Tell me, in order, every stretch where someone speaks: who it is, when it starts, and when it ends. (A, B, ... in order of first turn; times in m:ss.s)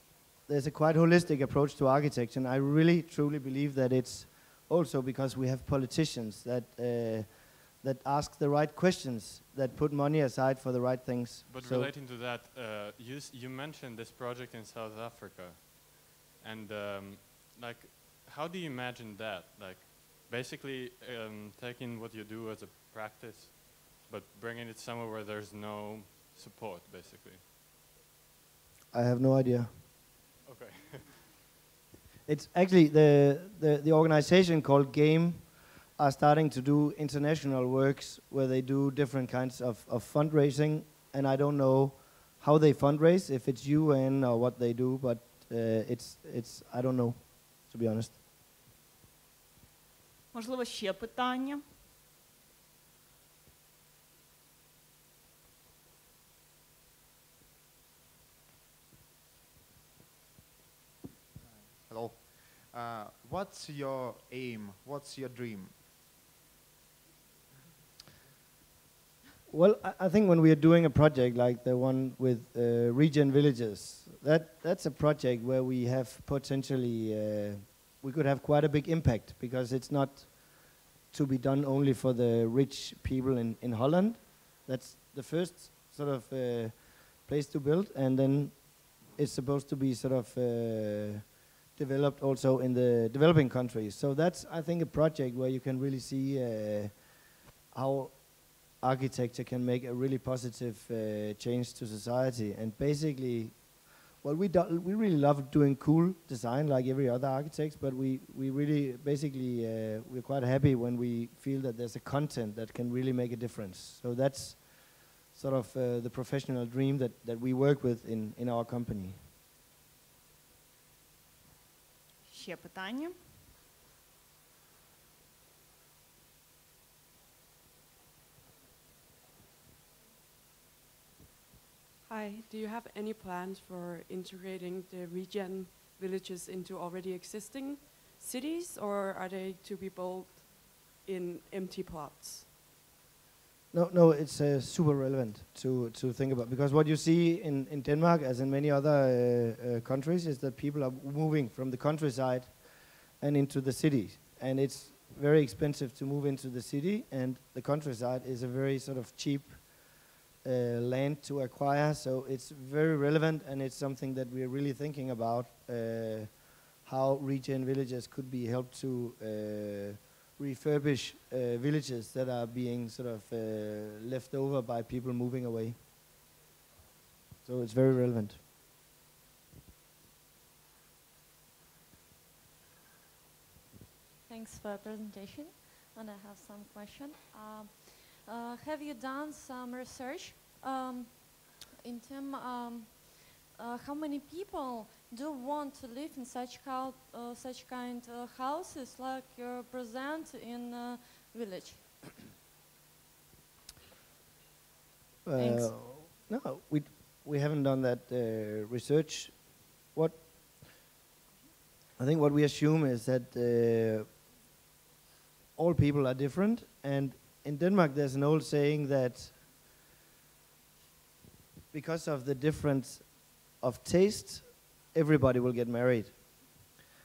0:00.5-0:11.9 A
0:11.5-0:27.4 B
0:28.9-0:29.8 A
0:30.4-0:31.2 B
0:32.2-0:48.2 A
0:50.3-0:51.6 C
1:01.4-1:05.8 D
1:09.5-1:37.1 A
1:37.7-1:43.6 A
1:44.2-1:59.2 A
2:02.3-2:03.1 C
2:12.0-2:22.5 E
2:23.7-2:32.6 A
2:33.2-2:39.9 A
2:40.4-2:55.8 A
2:57.4-2:58.4 A
3:04.3-3:22.1 F
3:25.2-3:29.4 A
3:25.4-3:25.8 F
3:29.9-3:30.2 A
3:32.0-3:34.1 A
3:35.6-3:39.4 A
3:41.7-3:43.1 A
3:43.6-3:46.1 A